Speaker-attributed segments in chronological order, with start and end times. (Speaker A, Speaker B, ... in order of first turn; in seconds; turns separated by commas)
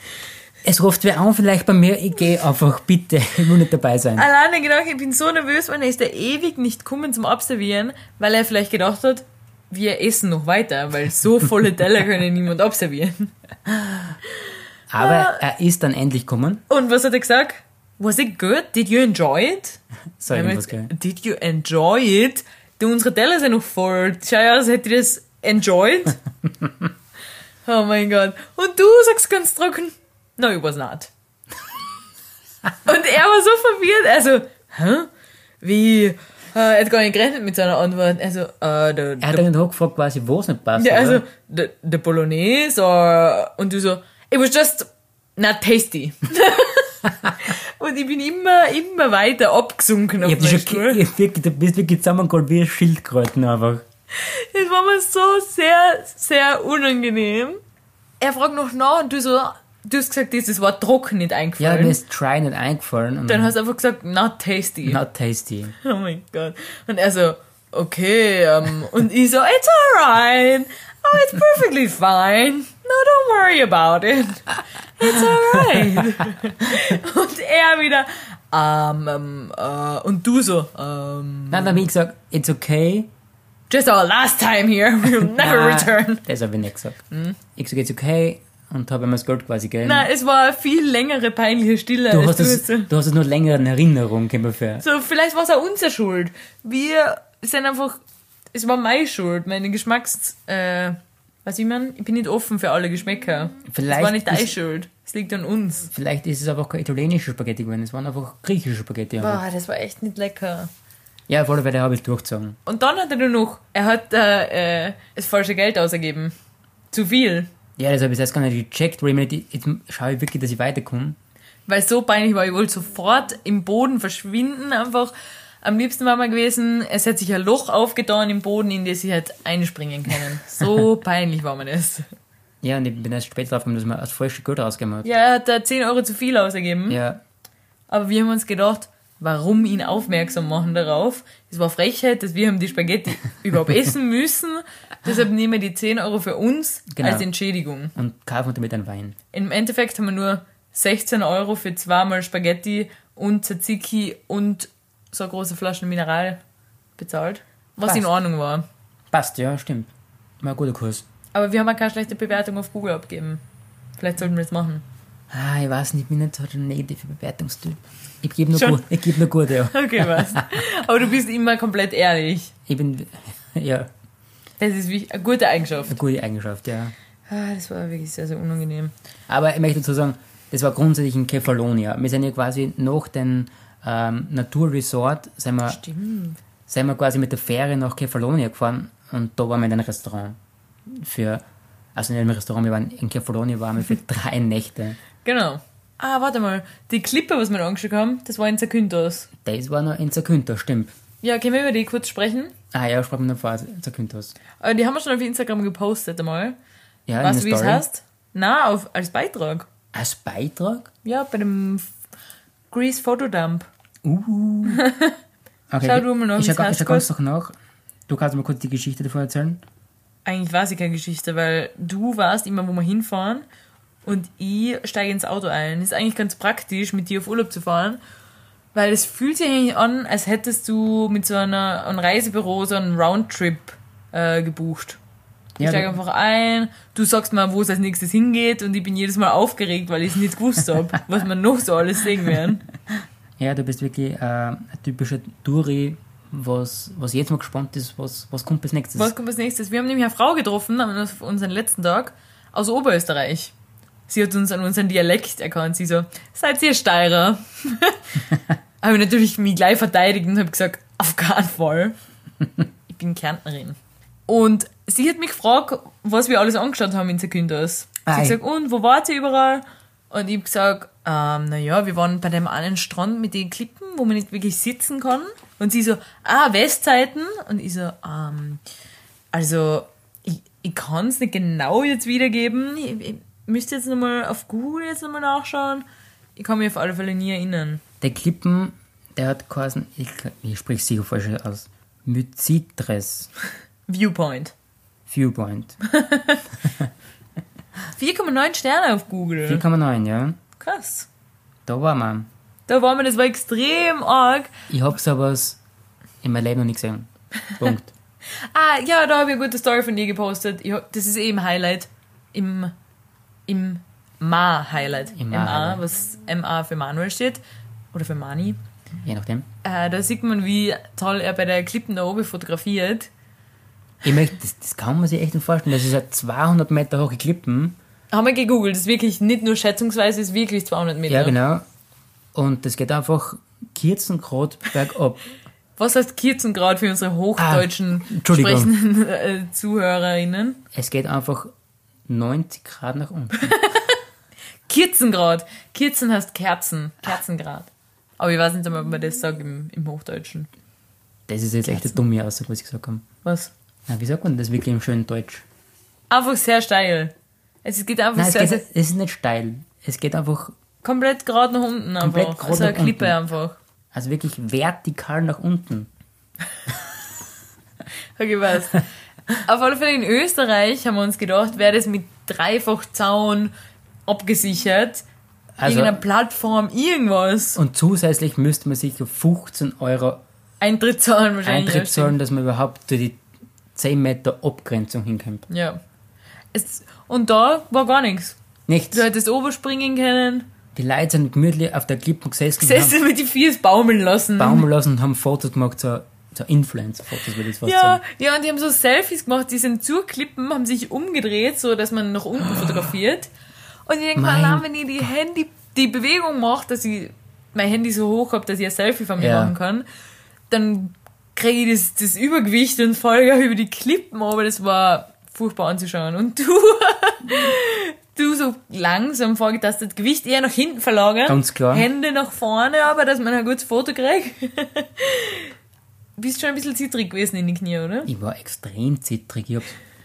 Speaker A: 0.6-4.2, Speaker B: 4.2-13.3, Speaker A: 14.9-16.6, Speaker B: 15.0-15.4, Speaker B: 16.7-26.2, Speaker A: 20.2-20.9, Speaker B: 27.6-31.1, Speaker B: 32.8-35.1, Speaker B: 35.6-39.5, Speaker A: 39.2-41.2, Speaker B: 40.8-51.0, Speaker A: 50.2-53.8, Speaker B: 54.1-57.6, Speaker B: 58.2-62.0, Speaker A: 61.6-63.5, Speaker B: 63.2-65.0, Speaker A: 64.8-65.7, Speaker B: 65.8-81.8, Speaker A: 81.5-83.1, Speaker B: 83.7-86.2, Speaker A: 85.2-87.0, Speaker B: 87.1-87.4, Speaker A: 87.5-90.1, Speaker B: 89.8-92.9, Speaker A: 92.1-94.8, Speaker B: 94.8-98.0, Speaker B: 98.5-105.9, Speaker A: 103.7-104.5, Speaker A: 105.9-109.4, Speaker B: 109.2-110.7, Speaker A: 111.3-112.6, Speaker B: 112.7-116.3, Speaker B: 116.9-117.5, Speaker A: 117.8-121.2, Speaker B: 121.7-125.1, Speaker B: 125.6-132.1, Speaker A: 132.6-135.1, Speaker B: 135.0-137.0, Speaker A: 136.9-137.2, Speaker B: 137.9-147.9, Speaker A: 146.9-147.3, Speaker A: 147.9-149.2, Speaker B: 149.3-156.4, Speaker B: 157.0-158.6, Speaker A: 159.1-159.9, Speaker A: 160.4-161.0, Speaker B: 161.3-163.4, Speaker B: 164.0-164.8, Speaker A: 165.3-170.5, Speaker B: 168.5-168.8, Speaker B: 169.7-172.5, Speaker A: 172.7-173.9, Speaker B: 174.6-176.0, Speaker A: 175.9-176.9, Speaker B: 177.3-178.9, Speaker A: 179.3-185.8, Speaker B: 185.7-186.4, Speaker A: 186.7-191.4, Speaker A: 191.9-195.0, Speaker B: 195.2-199.3, Speaker A: 199.4-200.9, Speaker B: 201.2-202.5, Speaker A: 202.7-204.3, Speaker B: 204.6-206.6, Speaker A: 207.1-207.8, Speaker B: 207.2-209.7, Speaker A: 209.9-210.9, Speaker B: 211.0-211.9, Speaker B: 212.7-213.7, Speaker A: 214.0-214.8, Speaker B: 214.7-215.2, Speaker A: 215.7-217.5, Speaker B: 215.8-217.1, Speaker A: 218.1-219.6, Speaker B: 220.2-223.4, Speaker B: 224.0-228.0, Speaker B: 228.7-235.0, Speaker A: 235.6-235.9, Speaker B: 235.6-242.6, Speaker A: 243.4-249.1, Speaker B: 248.9-253.5, Speaker B: 254.1-258.2, Speaker B: 258.8-261.9, Speaker B: 262.9-278.6, Speaker A: 268.0-268.4, Speaker B: 279.3-287.8, Speaker A: 288.0-293.3, Speaker B: 293.9-294.5, Speaker A: 295.1-295.8, Speaker B: 295.8-296.4, Speaker B: 297.9-299.6, Speaker A: 299.4-300.4, Speaker B: 300.6-301.1, Speaker A: 301.6-302.3, Speaker B: 302.7-304.5, Speaker A: 304.7-305.6, Speaker A: 306.2-307.9, Speaker B: 308.3-312.7, Speaker B: 313.5-317.4, Speaker A: 315.1-315.8, Speaker B: 317.9-318.6, Speaker A: 319.0-319.4, Speaker B: 319.6-323.1, Speaker A: 324.0-327.8, Speaker B: 328.1-331.4, Speaker A: 331.1-331.6, Speaker A: 332.3-335.3, Speaker B: 335.8-340.6, Speaker A: 337.4-338.7, Speaker A: 340.7-341.5, Speaker A: 342.1-343.6, Speaker B: 343.4-344.0, Speaker B: 344.7-350.5, Speaker A: 351.3-353.1, Speaker B: 351.7-351.9, Speaker B: 353.2-353.5, Speaker A: 353.9-355.4, Speaker B: 356.1-358.6, Speaker A: 358.1-360.5, Speaker B: 360.8-363.6, Speaker A: 362.0-363.2, Speaker A: 363.9-365.9, Speaker B: 368.1-368.8, Speaker B: 369.4-373.5, Speaker B: 374.1-375.0, Speaker A: 375.6-376.0, Speaker B: 375.6-377.6, Speaker A: 377.6-380.2, Speaker B: 380.6-382.1, Speaker A: 381.4-383.2, Speaker A: 383.7-385.4, Speaker B: 385.5-385.8, Speaker B: 386.5-388.4, Speaker A: 388.7-389.1, Speaker B: 388.9-390.5, Speaker A: 390.8-393.0, Speaker B: 392.6-394.7, Speaker A: 394.4-398.0, Speaker B: 397.6-403.3, Speaker B: 403.9-409.9, Speaker A: 404.1-404.6, Speaker A: 409.2-409.5, Speaker B: 410.5-425.5, Speaker A: 421.2-421.9, Speaker B: 426.2-428.1, Speaker A: 428.1-429.8